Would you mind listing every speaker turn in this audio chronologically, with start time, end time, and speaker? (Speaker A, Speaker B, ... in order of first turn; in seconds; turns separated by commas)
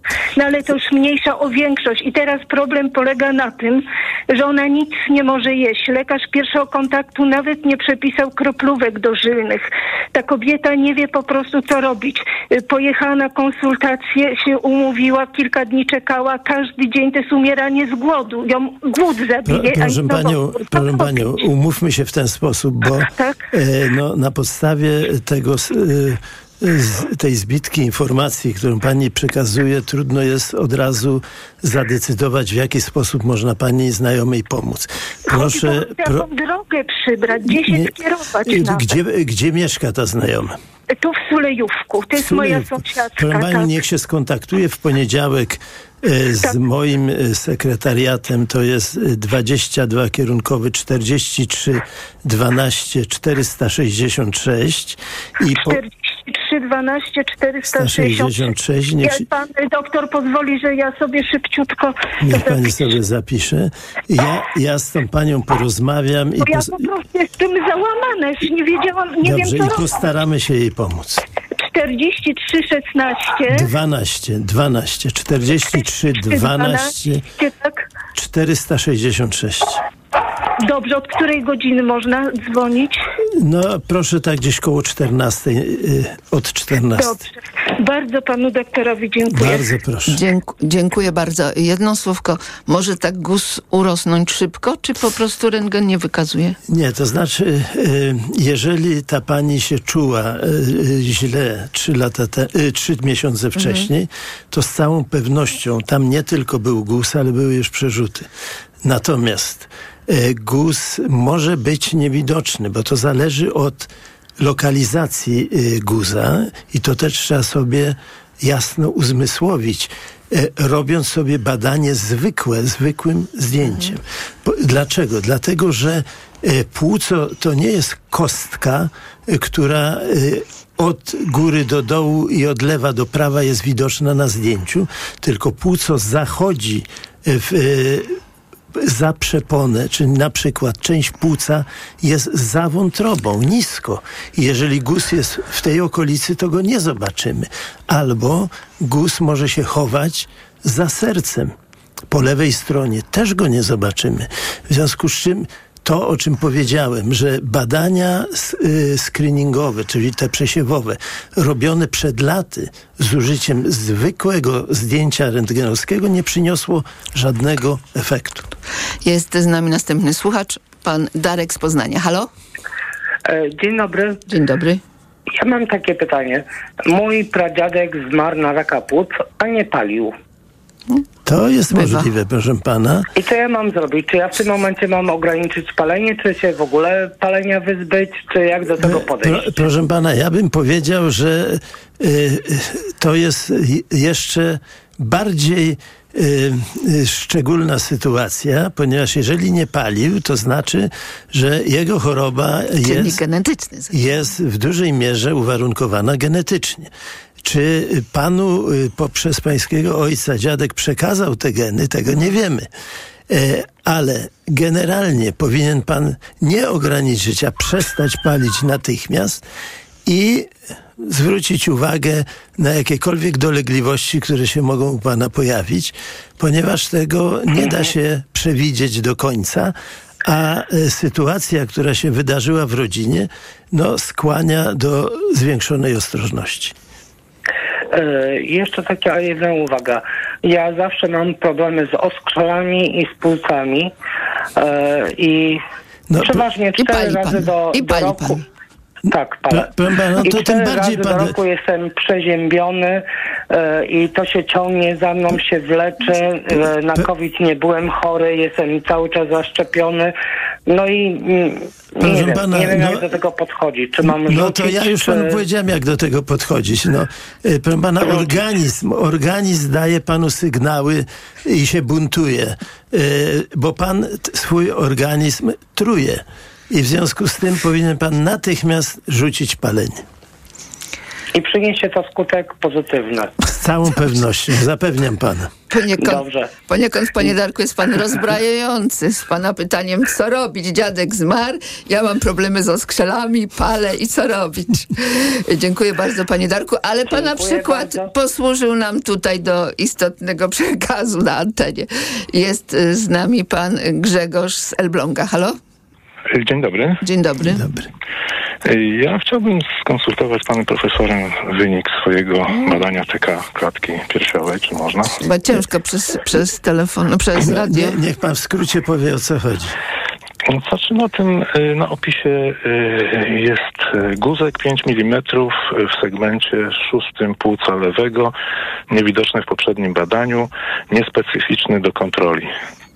Speaker A: 0.3-21.3, Speaker B: 19.4-36.2, Speaker A: 23.0-23.4, Speaker A: 35.3-38.9, Speaker B: 37.4-40.5, Speaker A: 40.9-43.7, Speaker B: 42.1-55.8, Speaker A: 55.6-58.5, Speaker B: 57.7-59.2, Speaker A: 59.0-62.8, Speaker B: 62.2-66.9, Speaker A: 66.4-70.0, Speaker B: 69.2-71.2, Speaker A: 71.6-73.7, Speaker B: 73.5-77.2, Speaker A: 75.7-77.8, Speaker B: 78.1-79.8, Speaker A: 80.6-83.0, Speaker B: 83.4-87.2, Speaker A: 86.9-89.7, Speaker B: 89.3-90.2, Speaker C: 90.1-96.6, Speaker B: 96.7-108.3, Speaker C: 103.5-103.9, Speaker B: 108.8-138.2, Speaker B: 138.8-151.5, Speaker B: 152.1-168.5, Speaker C: 169.0-172.3, Speaker D: 173.2-174.2, Speaker C: 174.3-174.8, Speaker D: 175.4-180.1, Speaker B: 181.2-183.1, Speaker C: 181.7-182.1, Speaker D: 183.2-189.6, Speaker B: 188.8-203.2, Speaker C: 202.8-204.1, Speaker B: 203.9-206.9, Speaker B: 207.4-212.7, Speaker B: 213.3-219.4, Speaker B: 220.0-236.7, Speaker D: 237.9-243.9, Speaker D: 244.6-245.6, Speaker B: 246.1-246.4, Speaker D: 246.2-248.4, Speaker C: 246.8-248.4, Speaker D: 249.1-249.7, Speaker B: 249.5-251.3, Speaker D: 250.2-260.1, Speaker D: 260.7-265.4, Speaker B: 262.0-263.1, Speaker B: 264.1-280.0, Speaker D: 281.3-283.3, Speaker B: 283.4-285.5, Speaker C: 285.7-305.6, Speaker D: 286.0-286.5, Speaker D: 297.1-298.1, Speaker E: 306.3-307.0, Speaker C: 307.0-307.6, Speaker B: 307.4-307.9, Speaker E: 308.6-315.2, Speaker C: 315.2-318.0, Speaker B: 317.4-319.7, Speaker E: 320.4-328.3, Speaker E: 328.9-332.5